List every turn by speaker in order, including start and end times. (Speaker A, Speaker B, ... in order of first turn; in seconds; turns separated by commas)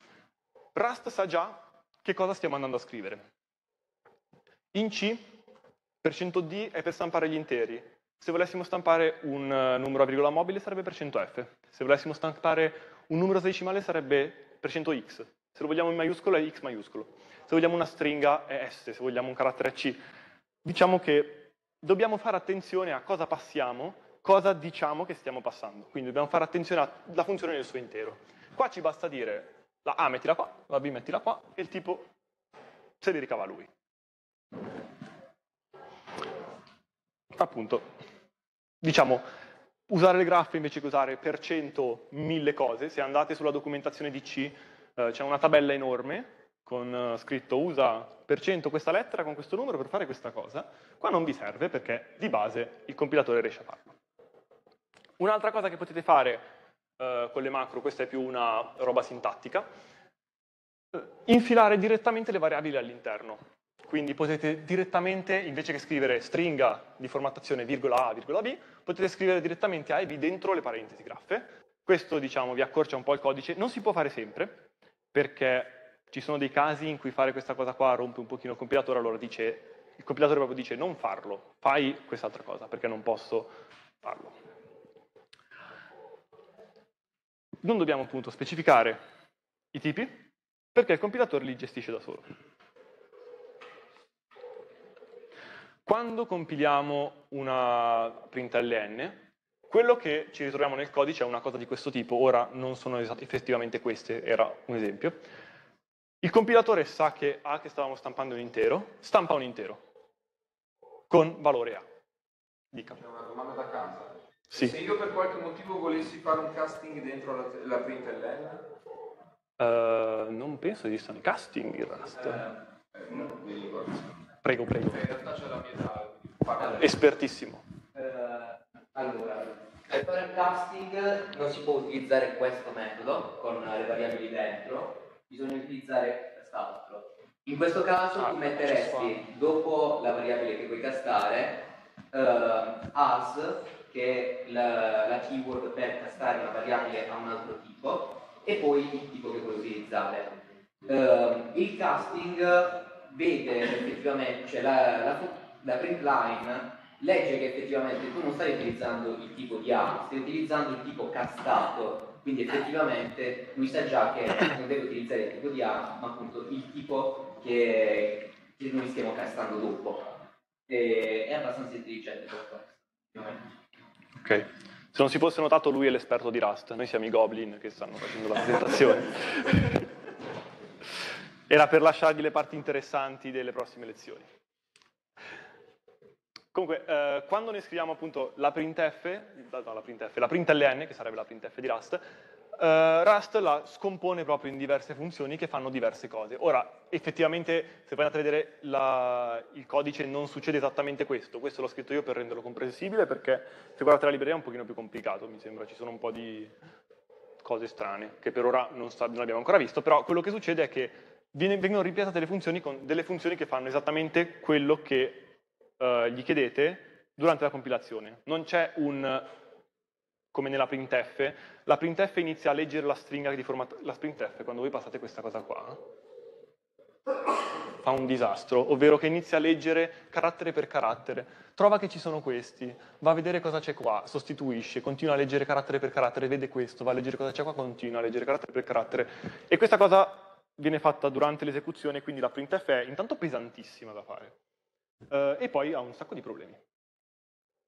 Speaker A: 0.7-3.2, Speaker A: 4.7-5.4, Speaker A: 6.0-20.0, Speaker A: 20.6-32.1, Speaker A: 33.0-33.7, Speaker A: 37.4-37.9, Speaker A: 38.8-39.3, Speaker A: 39.9-54.0, Speaker A: 55.2-56.4, Speaker A: 57.0-59.7, Speaker A: 60.9-84.4, Speaker A: 87.6-89.0, Speaker A: 89.7-92.2, Speaker A: 95.8-105.2, Speaker A: 106.2-109.8, Speaker A: 111.1-111.8, Speaker A: 112.7-113.0, Speaker B: 113.0-118.6, Speaker A: 119.6-122.5, Speaker B: 122.9-124.2, Speaker A: 124.4-125.0, Speaker B: 124.8-126.9, Speaker A: 126.7-127.6, Speaker C: 127.9-150.3, Speaker A: 138.2-139.2, Speaker C: 150.8-170.2, Speaker C: 170.7-173.4, Speaker A: 174.2-179.7, Speaker A: 181.5-184.3, Speaker A: 186.5-192.0, Speaker A: 192.6-206.5, Speaker A: 207.4-219.2, Speaker A: 220.3-225.8, Speaker A: 227.8-244.3, Speaker A: 245.1-246.6